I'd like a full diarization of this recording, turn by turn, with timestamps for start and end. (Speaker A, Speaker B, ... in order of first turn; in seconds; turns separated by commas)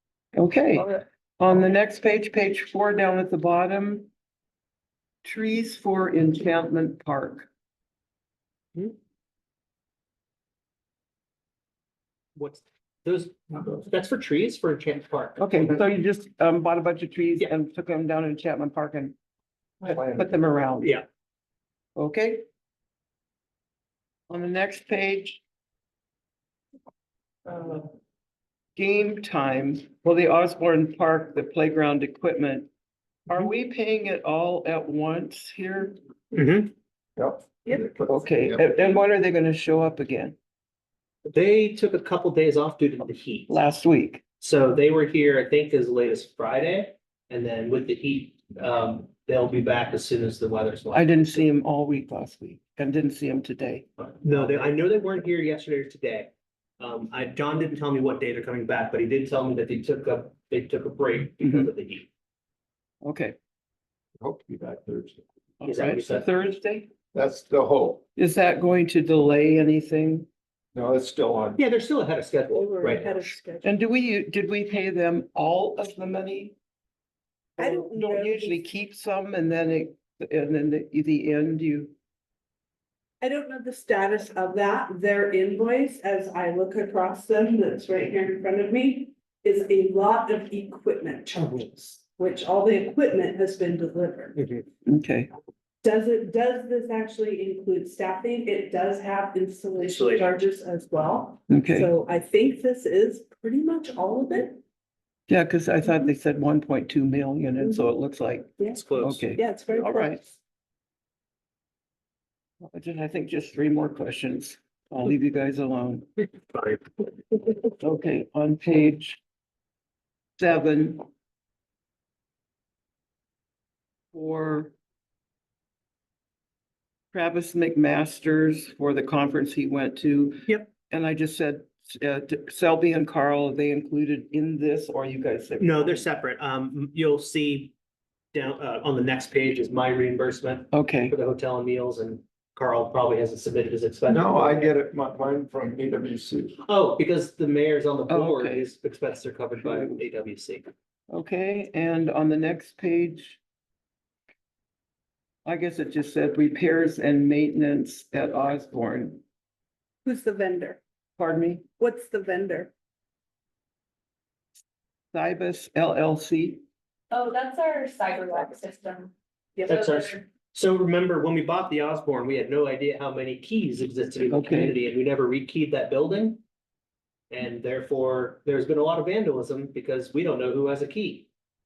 Speaker A: 0.3-4.1, Speaker A: 5.2-7.5, Speaker B: 12.4-15.7, Speaker A: 15.4-19.2, Speaker C: 19.8-20.3, Speaker A: 19.9-20.9, Speaker A: 22.0-22.4, Speaker A: 24.3-25.4, Speaker A: 28.8-32.7, Speaker A: 33.3-36.0, Speaker B: 36.3-36.7, Speaker C: 37.2-38.6, Speaker A: 38.0-40.4, Speaker B: 41.2-43.6, Speaker A: 43.5-44.2, Speaker B: 44.4-51.4, Speaker A: 50.9-54.1, Speaker B: 54.2-62.1, Speaker A: 61.4-61.7, Speaker A: 63.0-63.4, Speaker C: 64.2-65.2, Speaker A: 65.6-66.9, Speaker B: 65.7-66.3, Speaker C: 67.1-68.0, Speaker A: 68.2-70.3, Speaker C: 70.7-71.6, Speaker B: 71.6-73.3, Speaker D: 72.5-73.7, Speaker A: 73.6-76.5, Speaker D: 77.6-78.6, Speaker A: 77.6-81.9, Speaker D: 83.2-94.4, Speaker B: 91.4-91.7, Speaker B: 94.4-94.7, Speaker A: 94.9-95.3, Speaker D: 95.8-104.6, Speaker B: 99.9-100.2, Speaker A: 101.5-101.9, Speaker A: 105.3-110.2, Speaker D: 107.6-107.9, Speaker B: 108.7-109.3, Speaker D: 109.4-110.2, Speaker A: 112.6-116.1, Speaker B: 116.5-116.8, Speaker A: 117.8-119.2, Speaker A: 120.4-121.0, Speaker A: 124.1-124.7, Speaker A: 127.1-136.1, Speaker B: 135.6-137.7, Speaker B: 138.3-144.7, Speaker A: 140.7-141.2, Speaker C: 144.1-146.6, Speaker B: 146.7-150.7, Speaker A: 148.1-148.7, Speaker A: 149.6-150.1, Speaker A: 151.1-153.4, Speaker A: 155.4-159.2, Speaker D: 160.1-160.8, Speaker A: 161.2-161.7, Speaker D: 161.8-162.7, Speaker A: 165.1-166.6, Speaker E: 167.1-170.2, Speaker D: 169.6-169.8, Speaker B: 169.7-176.4, Speaker A: 174.3-174.8, Speaker B: 177.3-181.3